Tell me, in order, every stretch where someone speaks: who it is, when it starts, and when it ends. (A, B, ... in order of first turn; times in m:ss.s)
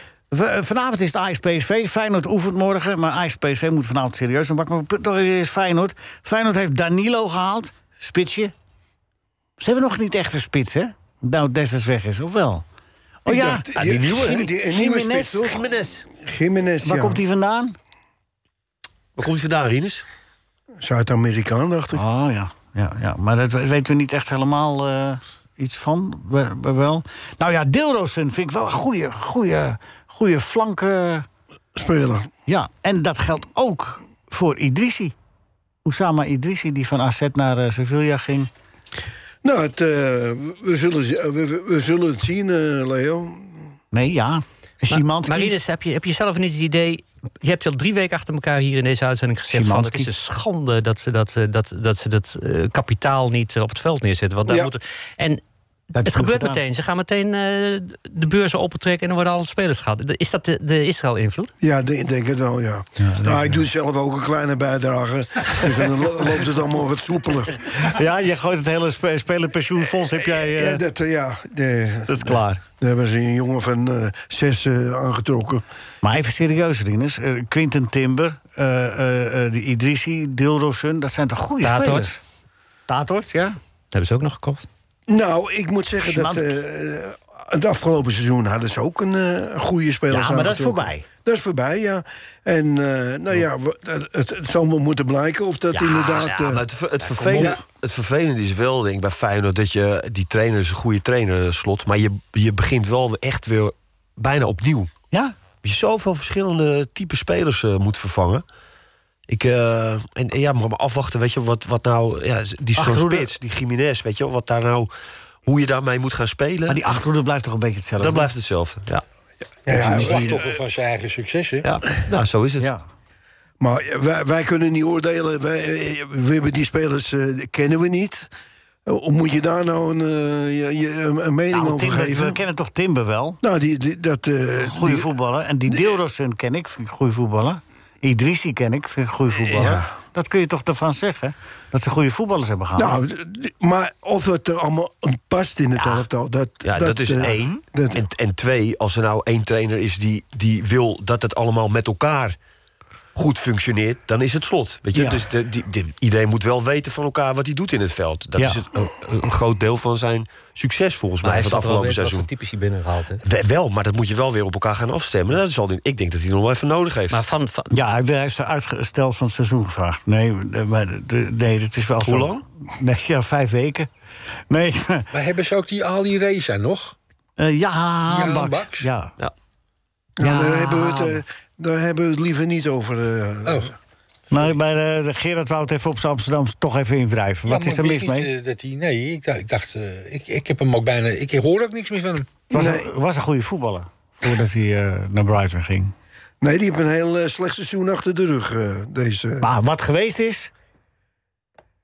0:00.3-0:08.5 A
0:09.6-0:12.6 A
0:13.2-0:15.5 A
0:13.2-0:17.2 B
0:13.8-0:14.4 C
0:15.4-0:16.0 C
0:16.8-0:17.8 A
0:19.2-0:20.0 C
0:20.8-0:22.0 B
0:21.9-0:31.2 A
0:31.7-0:32.3 B
0:32.5-0:35.1 A
0:35.8-0:38.5 A
0:39.4-0:43.7 B
0:43.9-0:45.5 A
0:44.9-0:55.4 D
0:49.5-0:50.1 A
0:54.5-0:54.7 B
0:55.9-0:56.6 A
0:56.0-1:01.5 D
1:01.6-1:07.6 B
1:03.0-1:03.6 A
1:07.7-1:10.8 A
1:09.9-1:15.6 B
1:12.1-1:12.6 A
1:16.0-1:22.2 A
1:21.6-1:22.1 D
1:22.9-1:23.6 A
1:23.9-1:24.7 D
1:25.1-1:36.6 B
1:26.0-1:26.5 A
1:30.1-1:31.0 A
1:35.8-1:44.9 C
1:37.2-1:37.6 A
1:37.2-1:37.6 B
1:45.6-1:48.4 C
1:49.3-1:54.9 C
1:52.8-1:53.3 A
1:55.4-1:56.8 C
1:56.7-1:58.3 A
1:58.0-1:59.0 C
1:59.6-2:00.5 B
1:59.7-2:00.3 A
1:59.7-2:01.6 E
2:01.7-2:02.7 C
2:02.6-2:02.8 A
2:03.6-2:08.3 B
2:08.8-2:12.4 B
2:11.5-2:13.4 A
2:13.4-2:15.1 B
2:14.6-2:23.0 A
2:15.7-2:16.0 B
2:19.5-2:19.9 B
2:19.6-2:19.8 C
2:22.8-2:28.1 B
2:26.6-2:32.4 C
2:33.1-2:42.3 C
2:34.9-2:35.2 A
2:38.4-2:38.6 A
2:41.2-2:43.2 D
2:43.2-2:47.2 C
2:47.1-2:47.7 D
2:47.7-2:53.9 A
2:52.0-2:52.4 C
2:54.5-2:55.1 A
2:55.1-2:57.0 E
2:57.4-2:59.1 A
2:58.1-2:58.9 E
3:00.2-3:03.7 B
3:00.2-3:01.2 A
3:04.3-3:08.3 A
3:07.4-3:12.4 E
3:12.5-3:12.9 B
3:12.5-3:15.9 A
3:16.4-3:19.5 B
3:19.4-3:20.5 A